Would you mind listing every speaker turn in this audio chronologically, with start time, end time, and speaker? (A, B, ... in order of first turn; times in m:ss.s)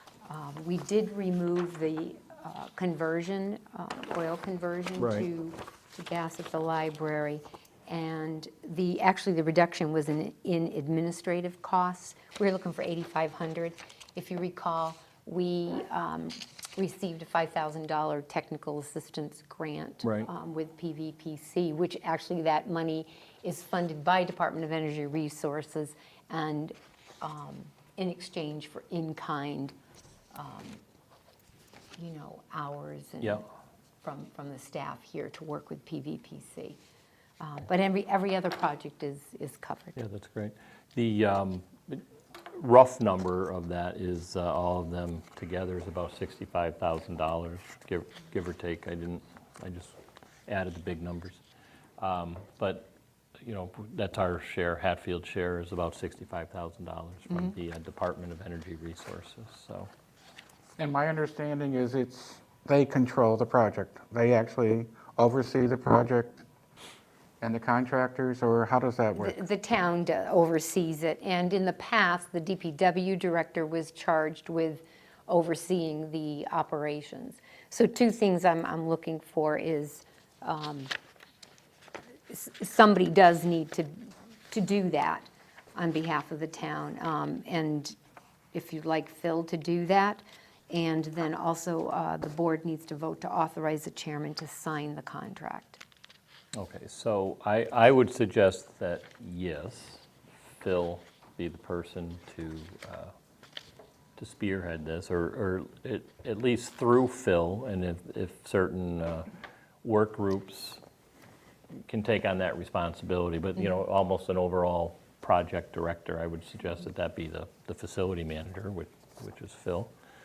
0:00.2-0:29.7 A
0:05.0-0:05.3 B
0:20.0-0:20.3 B
0:30.3-0:30.8 A
0:32.0-0:33.4 A
0:34.0-0:36.8 A
0:37.4-0:40.0 A
0:40.0-0:50.0 B
0:50.5-0:51.4 B
0:52.0-0:59.9 B
1:00.8-1:06.4 C
1:07.4-1:09.4 C
1:09.2-1:20.9 A
1:22.3-1:28.0 A
1:28.5-1:35.8 A
1:36.5-1:40.0 B
1:40.6-1:43.1 B
1:44.2-1:49.3 B
1:49.8-1:50.8 B
1:51.8-1:59.9 B